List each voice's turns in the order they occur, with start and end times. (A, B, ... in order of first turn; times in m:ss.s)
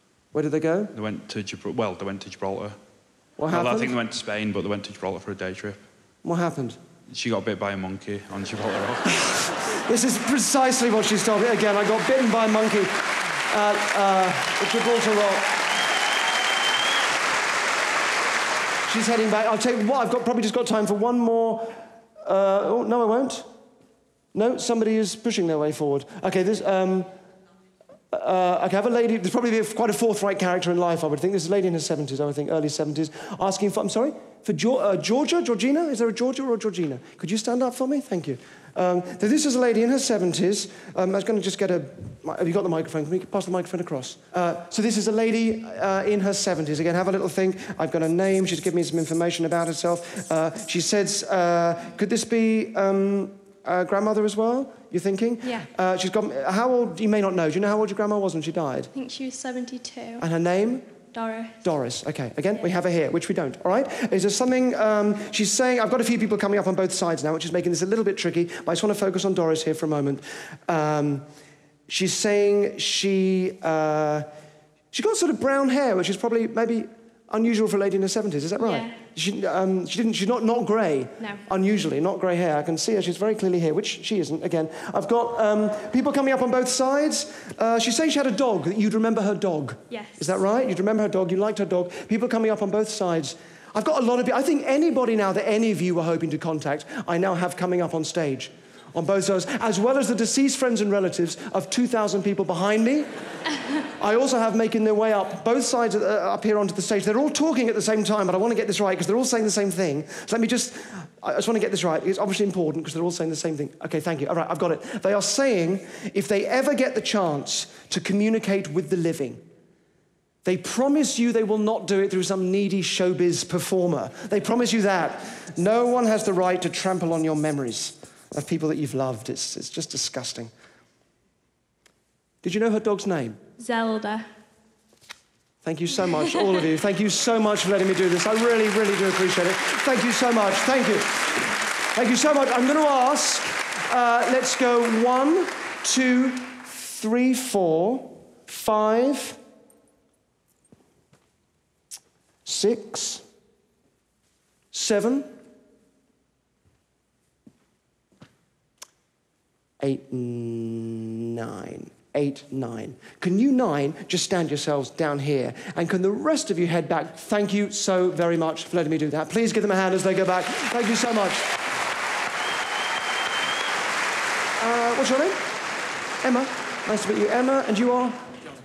0:00.3-0:00.9 A
0:00.9-0:02.8 B
0:03.4-0:03.9 A
0:03.5-0:05.8 B
0:06.2-0:06.8 A
0:07.1-0:09.5 B
0:09.9-0:15.5 A
0:18.9-0:23.5 A
0:24.3-0:27.1 A
0:28.1-0:58.9 A
0:55.4-0:55.7 C
0:58.9-1:00.3 C
1:00.2-1:00.9 A
1:01.1-1:01.7 C
1:01.6-1:11.3 A
1:11.9-1:14.3 A
1:14.9-1:43.1 A
1:18.6-1:19.0 C
1:21.2-1:21.4 C
1:29.9-1:30.3 C
1:44.0-1:59.4 A
2:00.4-2:10.5 A
2:12.4-2:13.4 A
2:13.6-2:14.3 C
2:15.6-2:29.4 A
2:32.5-2:33.2 A
2:34.7-2:35.3 A
2:39.8-2:51.5 A
2:54.6-2:55.4 A
2:56.2-2:58.2 A